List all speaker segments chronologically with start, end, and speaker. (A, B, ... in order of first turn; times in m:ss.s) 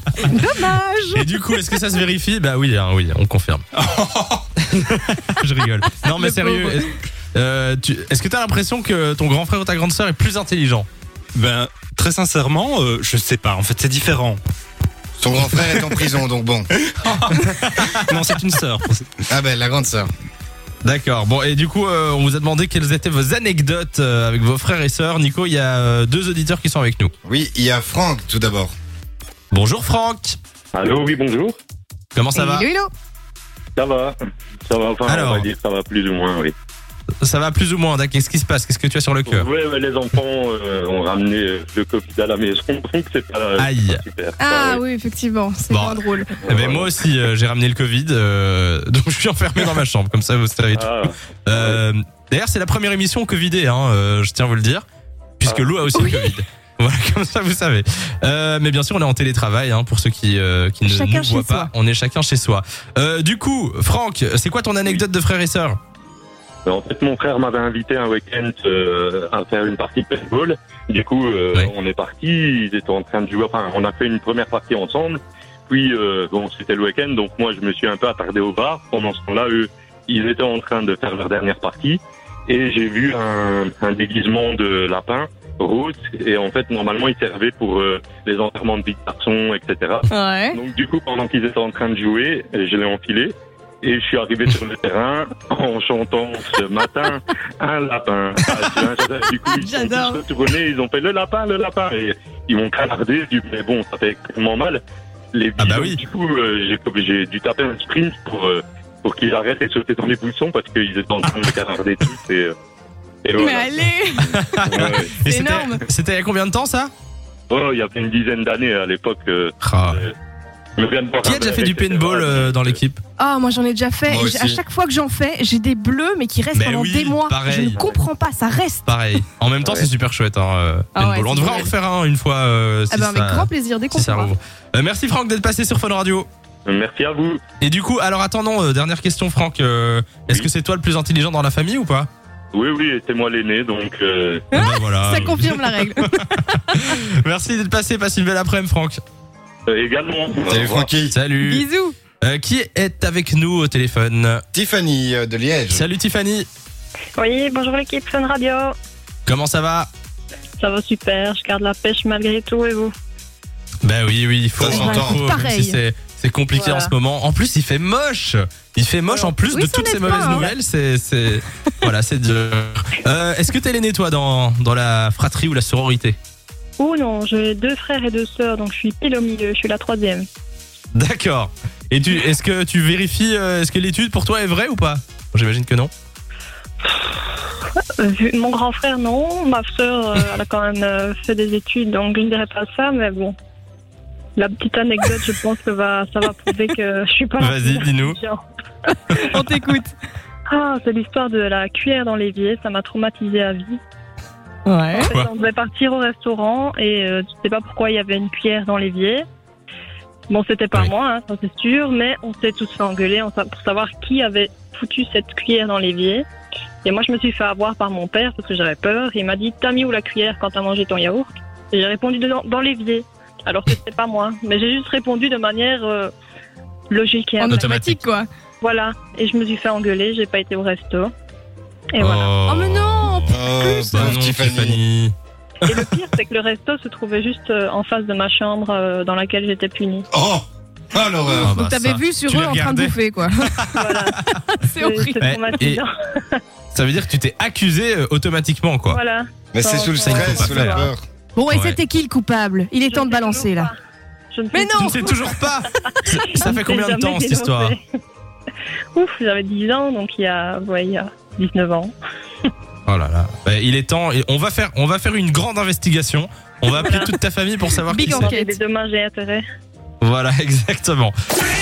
0:00.2-0:01.2 A
0:01.1-0:03.6 B
0:03.8-0:04.4 C
0:04.7-0:10.9 B
0:06.1-0:06.9 A
0:11.3-0:14.4 C
0:15.2-0:16.7 D
0:15.4-0:15.8 C
0:16.7-0:19.2 C
0:17.5-0:18.2 B
0:19.3-0:20.1 D
0:20.8-0:27.1 B
0:27.2-0:28.7 D
0:29.5-0:30.4 B
0:30.7-0:31.6 E
0:32.1-0:32.7 B
0:32.3-0:32.9 A
0:33.8-0:34.2 E
0:34.7-0:36.5 E
0:35.0-0:35.5 B
0:37.2-0:39.5 B
0:39.3-0:44.8 E
0:43.6-0:44.0 B
0:44.4-0:46.3 A
0:45.7-0:50.9 B
0:46.4-0:47.0 E
0:50.7-0:51.8 E
0:51.4-0:54.8 B
0:55.4-1:05.8 B
0:55.9-0:56.4 A
1:00.9-1:01.7 A
1:06.6-1:52.5 E
1:30.1-1:30.6 A
1:39.5-1:40.2 A
1:45.6-1:46.0 B
1:53.2-1:55.3 E
1:53.4-1:54.3 A
1:54.2-1:56.9 B
1:55.3-1:55.7 A
1:57.5-2:00.1 E
1:59.6-2:00.0 B
2:00.8-2:02.8 E
2:01.2-2:03.0 B
2:03.2-2:09.2 A
2:04.1-2:04.6 D
2:06.5-2:08.0 B
2:08.8-2:16.3 B
2:09.6-2:09.9 E
2:11.0-2:11.7 A
2:12.9-2:14.3 A
2:16.6-2:17.4 E
2:17.6-2:22.1 B
2:22.5-2:24.5 E
2:24.5-2:26.7 A
2:24.5-2:29.0 B
2:29.7-2:30.9 E
2:30.5-2:31.1 D
2:31.1-2:31.6 B
2:31.4-2:32.0 A
2:32.2-2:34.4 B
2:34.5-2:35.8 D
2:35.7-2:36.5 B
2:37.2-2:38.7 F
2:39.2-2:39.9 B
2:40.6-2:42.9 F
2:43.8-2:56.2 B
2:44.6-2:45.3 D
2:44.7-2:45.8 A
2:46.6-2:46.9 F
2:49.5-2:50.5 A
2:56.8-3:00.2 F
3:00.9-3:05.9 B
3:08.0-3:13.3 F
3:14.4-3:18.4 F
3:17.4-3:18.2 B
3:19.3-3:19.9 A
3:20.5-3:23.8 F
3:24.6-3:25.1 A
3:24.9-3:29.2 F
3:30.3-3:36.2 F
3:36.8-3:46.1 F
3:46.9-3:47.9 F
3:47.4-3:48.0 B
3:47.4-3:48.3 A
3:48.6-3:51.1 F
3:51.9-3:52.3 F
3:52.0-3:53.4 B
3:52.4-3:54.0 A
3:53.3-3:54.8 D
3:53.9-3:55.1 B
3:55.6-4:00.1 F
4:00.1-4:01.6 D
4:01.3-4:03.5 A
4:01.4-4:04.4 B
4:03.8-4:04.2 F
4:04.3-4:05.2 A
4:04.8-4:06.4 F
4:05.2-4:05.8 B
4:06.7-4:09.0 B
4:08.9-4:10.9 F
4:09.5-4:11.0 D
4:10.0-4:10.8 B
4:11.3-4:13.7 A
4:11.5-4:11.8 B
4:12.9-4:13.7 F
4:14.3-4:15.3 F
4:14.5-4:15.1 A
4:14.7-4:17.7 B
4:16.4-4:17.8 F
4:18.9-4:21.9 F
4:22.8-4:28.3 B
4:26.7-4:27.1 F
4:27.9-4:28.6 A
4:28.0-4:29.4 F
4:30.0-4:31.1 B